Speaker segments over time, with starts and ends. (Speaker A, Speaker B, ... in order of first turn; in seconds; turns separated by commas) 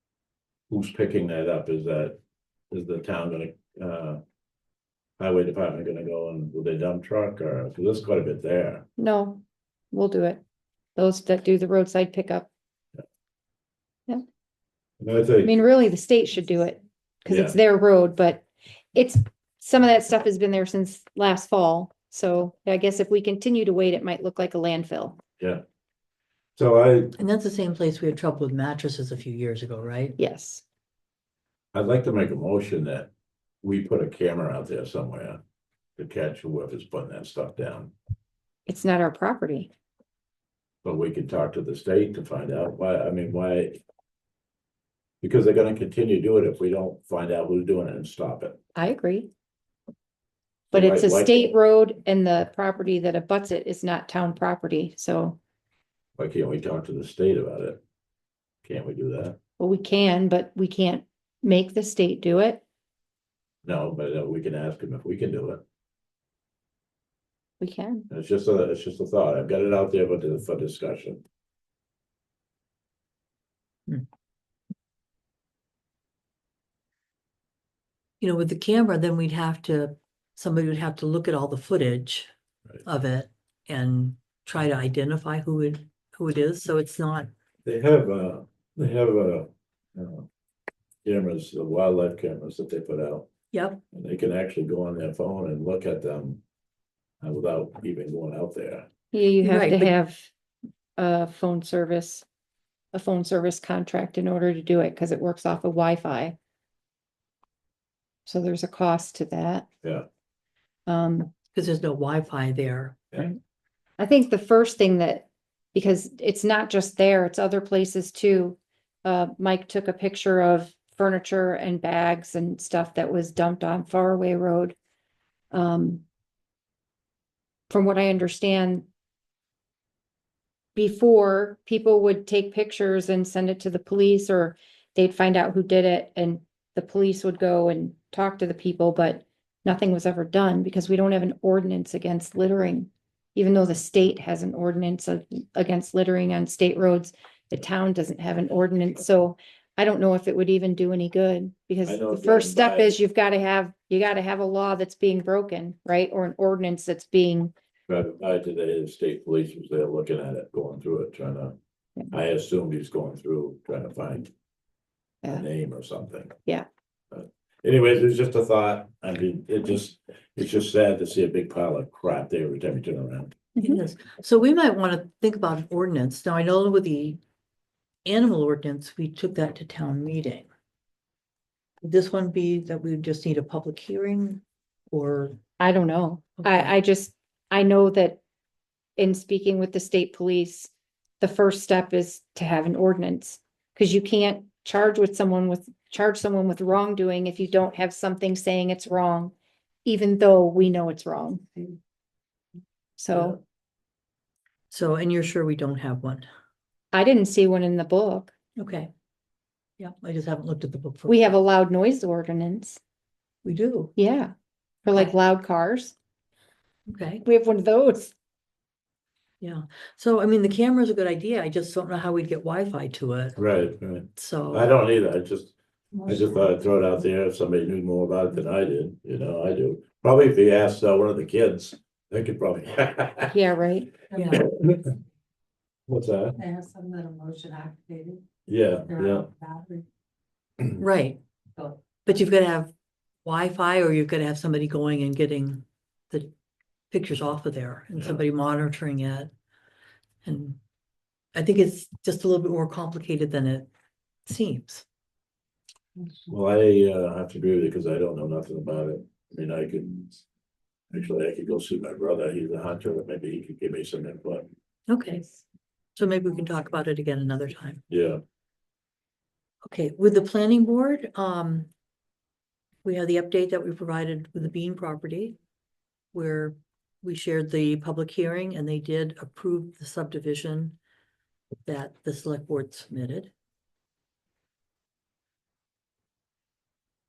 Speaker A: 0.7-2.1, Speaker A: 2.7-4.2, Speaker A: 5.2-8.8, Speaker B: 9.0-10.4, Speaker B: 10.9-12.5, Speaker A: 15.0-15.5, Speaker B: 15.4-25.2, Speaker A: 17.3-17.6, Speaker A: 26.6-27.1, Speaker C: 27.2-30.2, Speaker B: 30.2-30.6, Speaker A: 31.7-33.1, Speaker A: 33.6-35.4, Speaker A: 36.0-37.9, Speaker B: 38.7-39.7, Speaker A: 40.8-43.8, Speaker A: 45.2-48.6, Speaker B: 48.8-49.3, Speaker B: 50.7-55.4, Speaker A: 50.7-51.5, Speaker A: 56.2-57.8, Speaker A: 58.6-59.4, Speaker B: 59.6-62.6, Speaker A: 63.6-65.6, Speaker B: 67.6-68.0, Speaker A: 68.1-71.2, Speaker C: 78.2-82.3, Speaker C: 82.8-87.3, Speaker A: 87.6-90.3, Speaker A: 91.0-93.3, Speaker C: 93.5-93.8, Speaker A: 93.9-96.4, Speaker A: 97.2-98.8, Speaker B: 99.1-100.3, Speaker C: 99.4-99.9, Speaker B: 101.0-102.2, Speaker B: 102.9-106.3, Speaker B: 108.2-109.7, Speaker B: 110.9-111.3, Speaker C: 111.5-113.3, Speaker B: 114.0-124.8, Speaker B: 125.5-126.0, Speaker B: 127.7-128.9, Speaker B: 130.7-157.5, Speaker A: 151.8-153.0, Speaker A: 157.9-161.6, Speaker A: 162.1-164.3, Speaker A: 165.3-166.3, Speaker A: 167.1-173.4, Speaker C: 173.6-177.2, Speaker C: 178.0-180.5, Speaker C: 181.8-185.4, Speaker B: 185.6-188.2, Speaker C: 186.4-186.7, Speaker B: 189.0-199.3, Speaker B: 199.8-201.7, Speaker B: 203.0-203.4, Speaker C: 204.7-206.3, Speaker B: 206.9-208.3, Speaker C: 208.6-208.9, Speaker C: 209.8-211.3, Speaker B: 211.1-212.8, Speaker C: 213.4-213.9, Speaker B: 213.9-214.3, Speaker B: 214.8-215.9, Speaker C: 216.9-217.2, Speaker B: 217.2-218.1, Speaker C: 219.4-223.4, Speaker A: 223.4-225.5, Speaker C: 224.2-224.7, Speaker A: 226.0-233.3, Speaker B: 233.3-233.9, Speaker C: 234.1-234.5, Speaker A: 235.9-236.4, Speaker D: 236.4-238.2, Speaker A: 238.5-239.3, Speaker D: 239.0-239.8, Speaker C: 240.7-241.2, Speaker C: 242.0-242.7, Speaker C: 243.2-246.3, Speaker C: 246.9-249.3, Speaker C: 250.2-250.6, Speaker C: 251.3-253.7, Speaker C: 254.2-254.8, Speaker A: 256.3-260.2, Speaker A: 260.9-264.5, Speaker C: 264.9-265.4, Speaker C: 265.9-267.8, Speaker A: 267.9-268.2, Speaker C: 269.6-271.7, Speaker C: 272.8-275.4, Speaker C: 276.1-280.8, Speaker C: 281.6-283.3